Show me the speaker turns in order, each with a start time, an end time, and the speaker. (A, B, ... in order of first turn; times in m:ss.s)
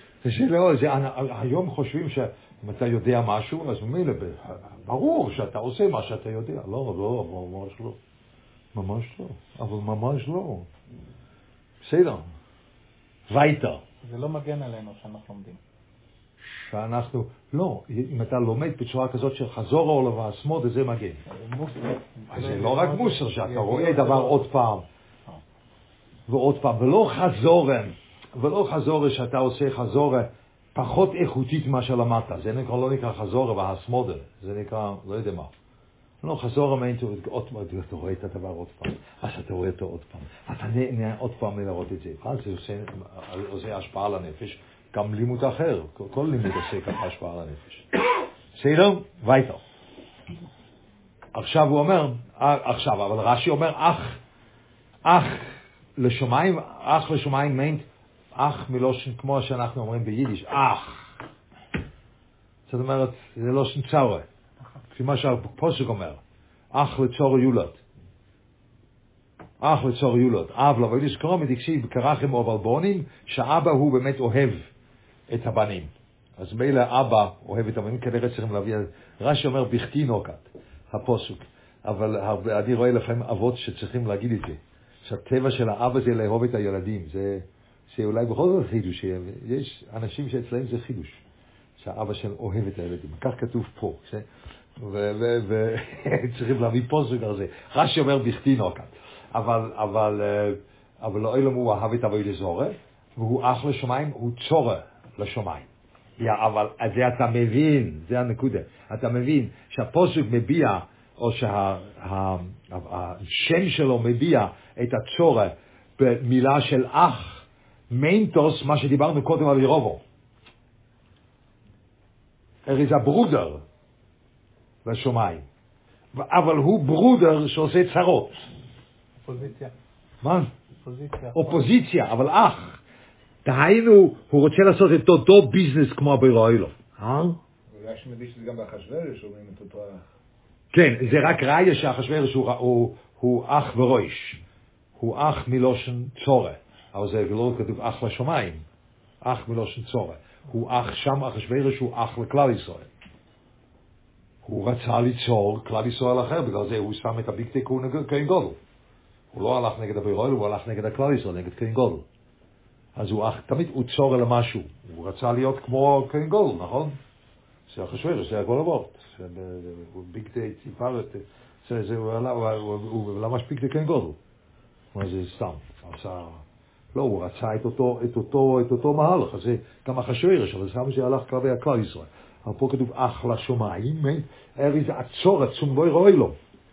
0:00.2-0:08.0 A
0:08.7-0:10.7 A
0:11.8-0:12.2 A
0:13.3-0:13.8 A
0:14.0-0:15.6 B
0:16.4-0:21.2 A
0:21.3-0:22.8 C
0:22.3-0:23.3 B
0:22.3-0:24.8 A
0:23.4-0:24.4 C
0:26.3-0:35.5 A
0:36.2-0:47.8 A
0:48.6-0:49.6 A
0:51.3-0:54.2 A
0:55.0-1:01.1 A
1:02.7-1:04.2 A
1:04.9-1:06.2 A
1:06.7-1:07.8 A
1:09.6-1:14.7 A
1:15.3-1:31.2 A
1:31.8-1:34.2 A
1:34.8-1:45.6 A
1:46.2-2:00.0 A
2:02.6-2:03.6 A
2:04.8-2:05.4 A
2:06.1-2:08.4 A
2:09.2-2:09.7 B
2:10.2-2:10.5 A
2:10.8-2:11.6 B
2:11.3-2:12.8 A
2:13.4-2:17.4 A
2:17.7-2:20.0 C
2:20.7-2:24.4 A
2:25.0-2:28.6 A
2:29.2-2:32.9 A
2:34.4-2:38.6 A
2:39.3-2:42.0 A
2:42.9-2:47.0 A
2:47.7-2:54.2 A
2:54.9-3:06.4 A